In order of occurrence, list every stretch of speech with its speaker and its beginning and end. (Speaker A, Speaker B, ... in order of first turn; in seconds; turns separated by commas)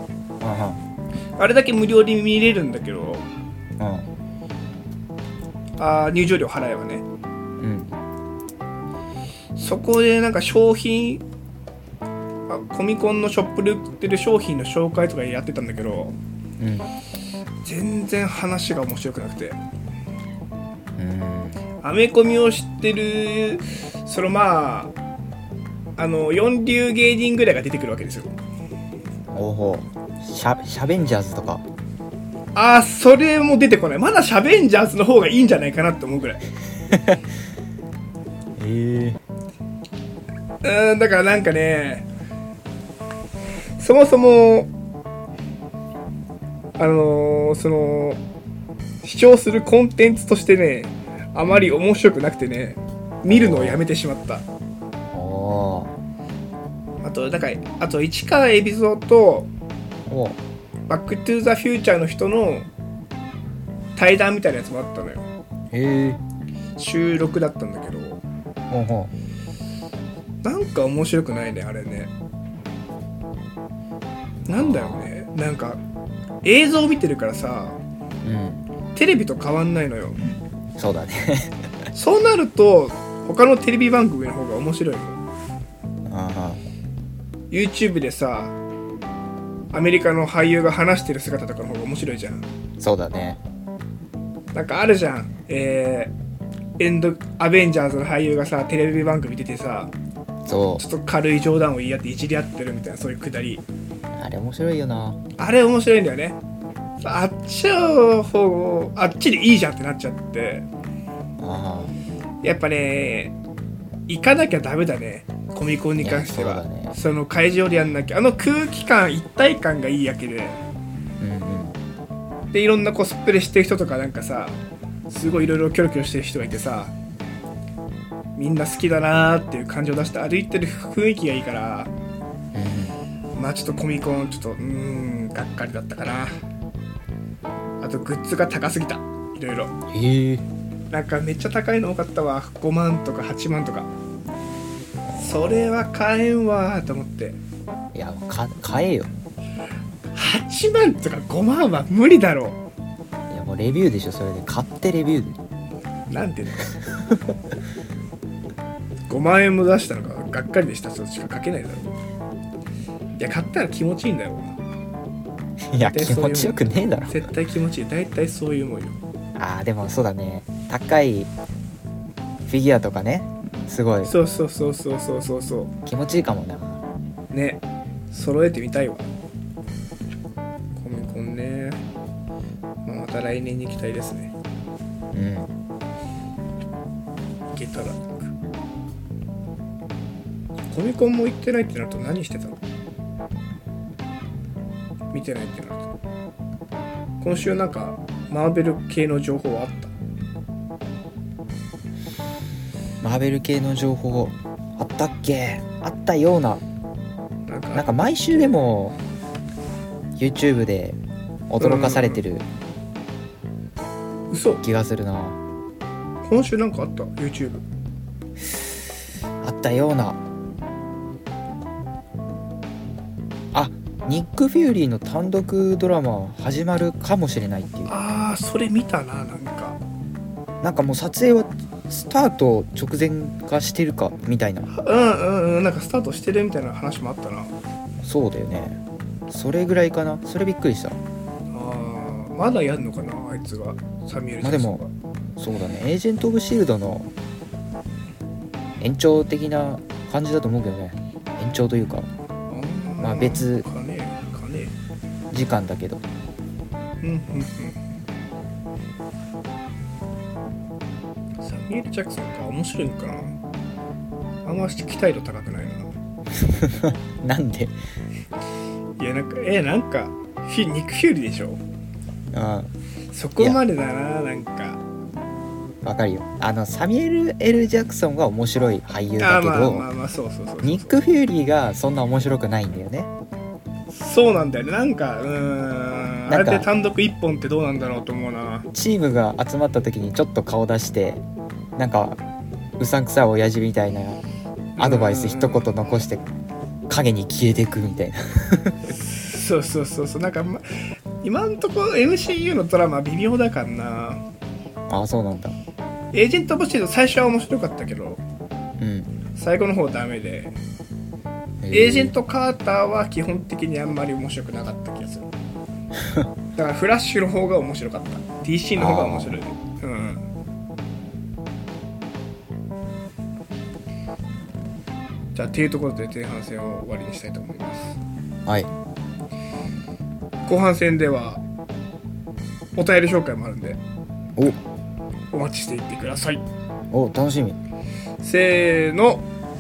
Speaker A: 0.4-0.8, Speaker B: 1.4-3.2, Speaker A: 3.8-4.1, Speaker B: 5.8-7.0, Speaker A: 7.6-7.9, Speaker B: 9.6-11.2, Speaker B: 12.5-16.1, Speaker A: 16.6-16.9, Speaker B: 17.6-19.6, Speaker A: 21.0-21.6, Speaker B: 21.8-24.9, Speaker B: 26.0-28.3, Speaker A: 29.3-31.6, Speaker B: 32.5-36.4, Speaker A: 36.9-37.2, Speaker A: 38.6-39.2, Speaker B: 40.6-42.1, Speaker B: 43.8-44.7, Speaker B: 46.8-48.2, Speaker B: 49.0-54.4, Speaker A: 51.5-51.8, Speaker A: 53.3-53.8, Speaker A: 55.1-55.9, Speaker B: 57.0-59.5, Speaker A: 60.1-60.4, Speaker B: 60.9-62.7, Speaker B: 64.0-65.3, Speaker A: 65.7-66.2, Speaker B: 66.8-68.2, Speaker A: 68.7-69.1, Speaker B: 70.4-72.1, Speaker A: 74.5-75.1, Speaker B: 74.5-75.8, Speaker B: 76.4-77.8, Speaker A: 78.2-78.6, Speaker B: 78.9-80.2, Speaker A: 80.8-81.6, Speaker B: 81.9-85.2, Speaker A: 86.1-86.6, Speaker B: 87.5-88.5, Speaker B: 89.7-92.4, Speaker A: 92.8-93.4, Speaker B: 94.5-96.1, Speaker B: 96.8-99.9, Speaker A: 100.5-100.8, Speaker B: 100.8-103.6, Speaker A: 104.1-105.2, Speaker B: 105.4-106.4, Speaker B: 107.0-110.7, Speaker A: 111.4-111.9, Speaker B: 112.4-113.3, Speaker B: 114.1-120.6, Speaker A: 116.0-117.0, Speaker A: 121.2-121.7, Speaker B: 122.5-124.6, Speaker B: 125.1-126.9, Speaker B: 128.3-131.9, Speaker A: 132.5-133.0, Speaker B: 133.3-136.3, Speaker B: 137.8-139.7, Speaker A: 139.9-140.4, Speaker B: 140.9-143.9, Speaker A: 145.1-145.7, Speaker B: 145.1-147.4, Speaker A: 147.9-149.1, Speaker B: 150.1-152.6, Speaker A: 153.3-155.4, Speaker B: 156.1-156.7, Speaker B: 159.1-161.9, Speaker B: 163.2-164.6, Speaker A: 165.7-167.3, Speaker B: 165.9-169.0, Speaker A: 169.3-171.3, Speaker A: 172.4-174.1, Speaker B: 174.0-175.7, Speaker A: 175.8-176.8, Speaker B: 177.3-179.1, Speaker B: 180.8-181.8, Speaker B: 182.8-184.3, Speaker A: 185.1-185.5, Speaker B: 187.5-188.3, Speaker B: 190.7-192.6, Speaker B: 195.1-195.9, Speaker B: 197.2-199.9, Speaker A: 203.0-206.6, Speaker B: 207.5-208.6, Speaker A: 207.7-208.9, Speaker A: 210.2-211.0, Speaker A: 211.5-212.4, Speaker B: 211.6-212.2, Speaker B: 214.3-214.6, Speaker A: 214.6-215.4, Speaker B: 216.2-217.6, Speaker A: 219.4-220.2, Speaker A: 223.5-227.9, Speaker B: 227.9-229.8, Speaker A: 230.6-234.7, Speaker B: 234.7-237.5, Speaker A: 238.0-238.8, Speaker A: 239.3-241.0, Speaker B: 241.5-244.9, Speaker A: 244.4-244.8, Speaker A: 245.4-247.1, Speaker A: 248.8-252.1, Speaker B: 252.5-254.7, Speaker A: 253.0-253.7, Speaker A: 255.3-256.0, Speaker B: 257.0-257.8, Speaker B: 261.4-263.4, Speaker B: 264.4-265.9, Speaker A: 266.4-267.7, Speaker B: 269.0-271.6, Speaker A: 272.3-272.7, Speaker B: 273.1-274.8, Speaker A: 275.8-279.9, Speaker B: 279.2-280.9, Speaker A: 280.6-283.1, Speaker B: 283.9-288.6, Speaker A: 286.3-286.7, Speaker A: 288.7-291.2, Speaker A: 291.8-292.2, Speaker A: 292.8-294.2, Speaker B: 294.8-296.0, Speaker A: 294.8-296.2, Speaker A: 296.9-298.8, Speaker B: 298.9-300.6, Speaker B: 301.2-304.2, Speaker A: 304.9-305.5, Speaker B: 306.1-308.2, Speaker A: 308.8-309.1, Speaker B: 309.4-310.6, Speaker A: 311.6-312.1, Speaker B: 311.7-315.3, Speaker B: 316.5-320.2, Speaker A: 318.8-319.4, Speaker B: 325.3-328.0, Speaker A: 328.4-328.7, Speaker B: 330.4-331.4, Speaker B: 332.8-333.8, Speaker B: 335.3-336.4, Speaker A: 336.9-337.6, Speaker B: 338.2-339.2